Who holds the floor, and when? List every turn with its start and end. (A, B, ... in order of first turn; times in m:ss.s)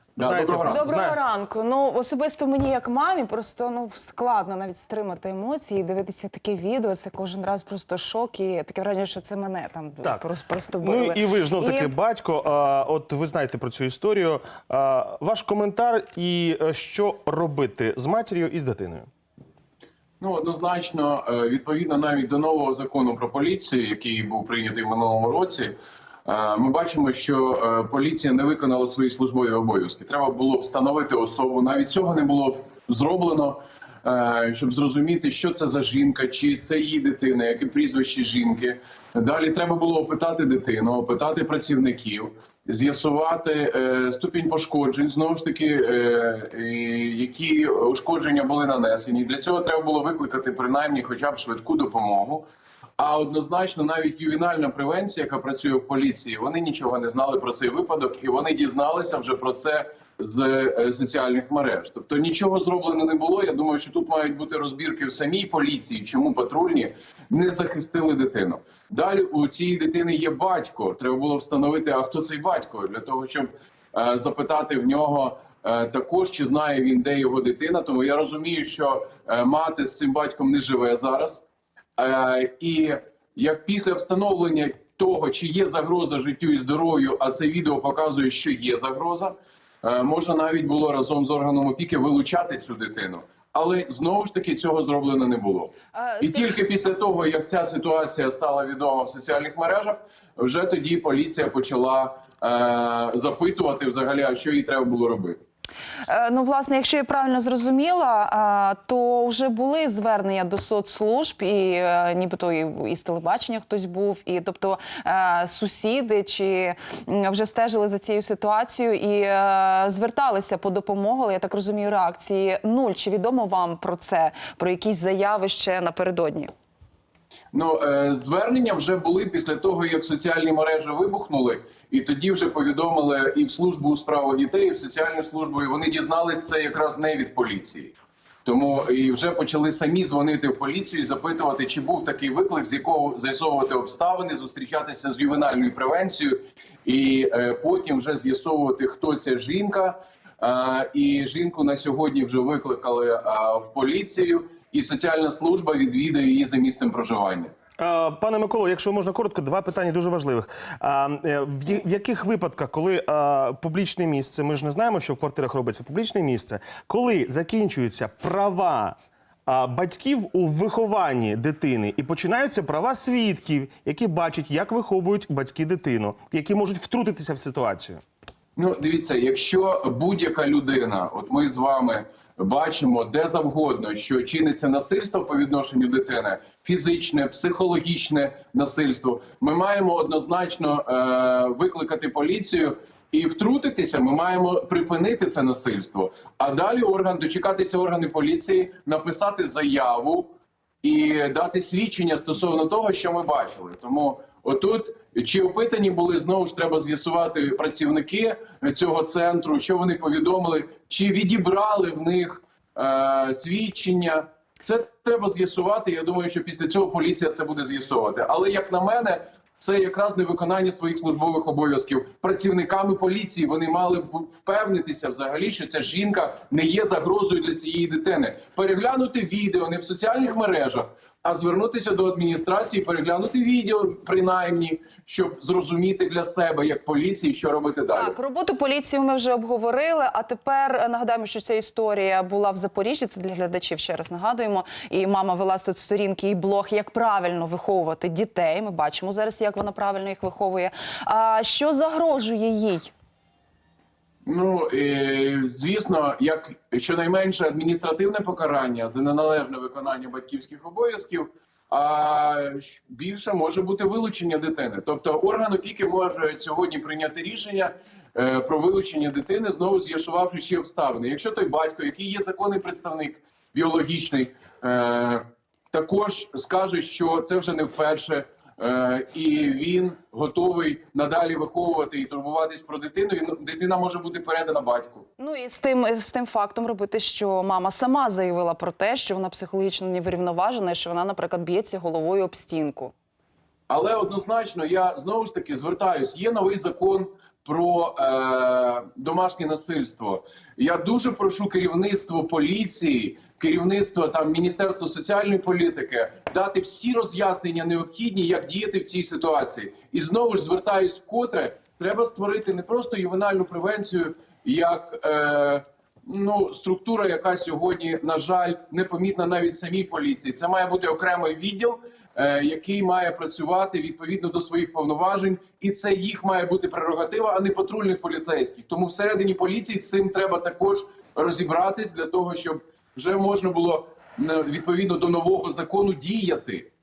0:00.2-0:00.9 A
0:00.2-0:01.2 B
0:00.7-0:11.9 C
0:10.8-0:19.1 B
0:20.2-0:25.7 A
0:26.3-0:52.4 A
0:53.0-1:21.4 A
1:22.0-1:45.4 A
1:36.0-1:36.6 C
1:46.1-2:06.5 C
2:07.5-2:17.9 A
2:18.4-2:37.5 A
2:37.8-2:58.0 B
2:58.6-3:20.3 A
3:20.8-3:58.2 A
3:57.9-4:12.9 C
4:14.2-4:45.1 A
4:45.2-4:52.9 C
4:53.7-5:36.7 A